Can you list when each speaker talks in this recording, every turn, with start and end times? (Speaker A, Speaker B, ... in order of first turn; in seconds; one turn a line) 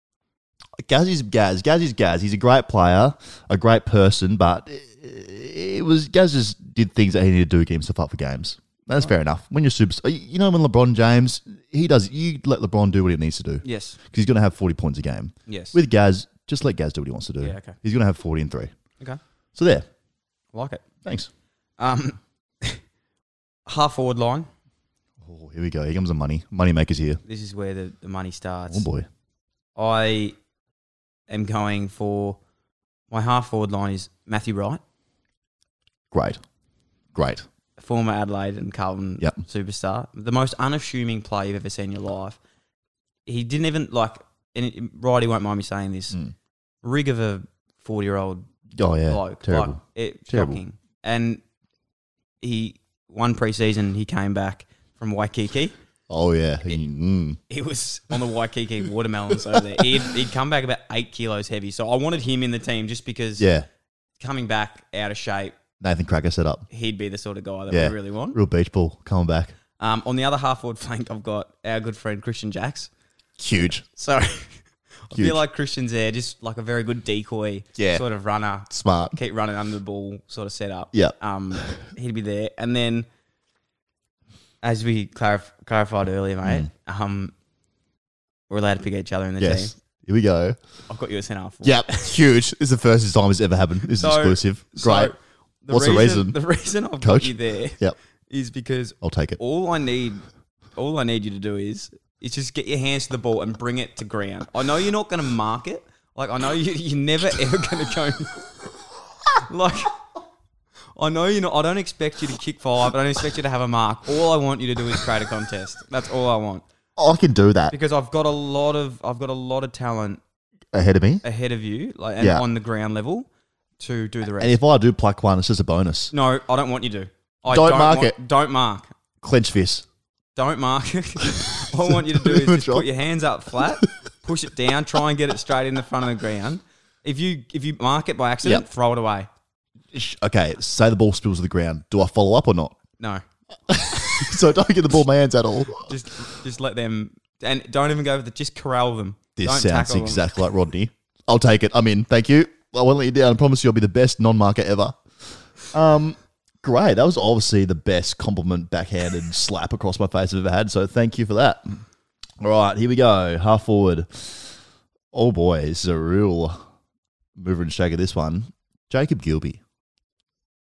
Speaker A: 0.8-18.7
Speaker B: 13.6-14.0
Speaker B: 15.5-15.8
Speaker B: 17.4-17.8
Speaker A: 19.6-19.8
Speaker B: 20.5-20.8
Speaker B: 21.8-22.8
Speaker B: 23.6-24.5
Speaker A: 25.2-27.2
Speaker B: 27.2-28.9
Speaker A: 28.7-29.1
Speaker B: 29.8-30.3
Speaker B: 31.3-32.4
Speaker B: 33.1-34.8
Speaker A: 36.1-36.4
Speaker A: 37.1-37.5
Speaker B: 37.8-42.4
Speaker B: 43.2-46.2
Speaker B: 46.8-48.5
Speaker A: 48.7-50.6
Speaker B: 49.1-51.4
Speaker B: 52.4-55.7
Speaker A: 56.1-57.4
Speaker B: 57.5-63.5
Speaker A: 63.4-63.7
Speaker B: 64.2-65.5
Speaker A: 65.8-66.7
Speaker B: 66.7-68.4
Speaker A: 67.7-69.5
Speaker B: 69.8-72.9
Speaker A: 73.4-73.8
Speaker B: 73.9-83.1
Speaker A: 75.1-75.4
Speaker A: 77.8-78.0
Speaker A: 78.7-79.2
Speaker A: 80.9-81.7
Speaker B: 84.6-87.3
Speaker A: 86.4-86.7
Speaker B: 88.5-89.7
Speaker A: 89.4-90.6
Speaker B: 90.9-92.1
Speaker A: 91.6-95.1
Speaker B: 94.0-100.2
Speaker A: 95.7-96.4
Speaker A: 97.0-98.0
Speaker A: 99.0-99.4
Speaker B: 100.8-108.4
Speaker B: 109.3-110.0
Speaker B: 111.0-116.6
Speaker A: 117.0-117.7
Speaker B: 117.7-120.2
Speaker A: 120.7-121.2
Speaker B: 121.2-123.3
Speaker A: 122.2-122.5
Speaker B: 123.8-124.6
Speaker A: 124.4-126.1
Speaker B: 126.1-128.9
Speaker A: 127.5-128.2
Speaker A: 129.2-129.8
Speaker B: 130.3-139.3
Speaker A: 131.8-132.9
Speaker A: 139.9-142.8
Speaker A: 143.7-145.9
Speaker B: 145.8-150.2
Speaker A: 149.4-155.0
Speaker A: 155.7-161.8
Speaker A: 162.4-164.6
Speaker A: 165.1-166.6
Speaker A: 167.4-169.6